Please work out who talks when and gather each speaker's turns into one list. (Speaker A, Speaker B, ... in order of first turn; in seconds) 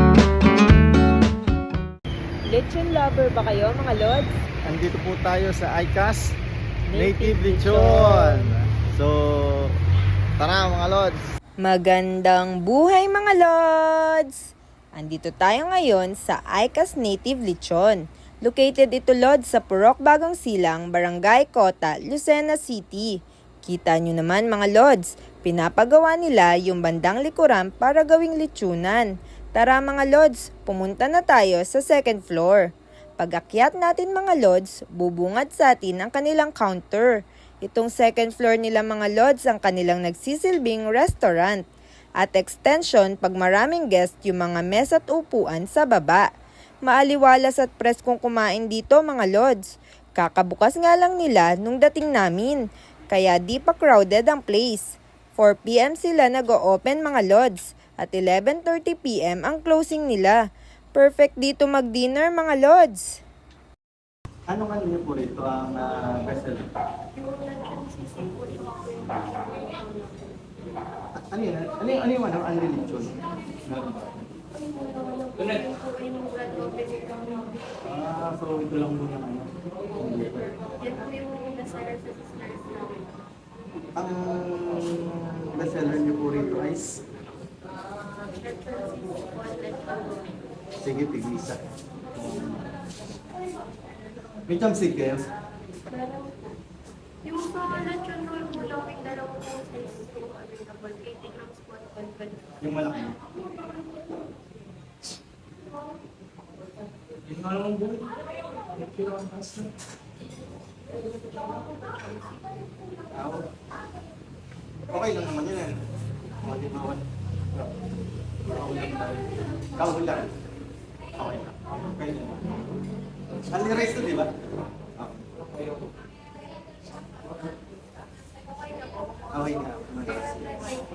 Speaker A: 2.5-4.3, 6.9-8.5, 11.6-41.6, 42.2-46.2, 46.9-49.6, 50.2-54.8, 55.4-60.4, 60.9-63.1
Speaker B: 4.7-6.3, 6.9-9.8, 10.4-11.2, 64.5-66.7, 71.2-74.2, 77.8-80.9, 84.0-87.0, 90.8-91.6, 92.1-92.6, 94.5-95.3, 102.6-103.3, 107.3-108.1, 108.8-109.7, 113.1-113.5, 114.9-115.8, 116.4-117.1, 118.4-120.3, 121.2-122.5, 123.5-124.3, 129.3-130.7
Speaker C: 67.6-69.8, 74.8-77.5, 81.0-82.9, 88.5-90.0, 97.2-102.4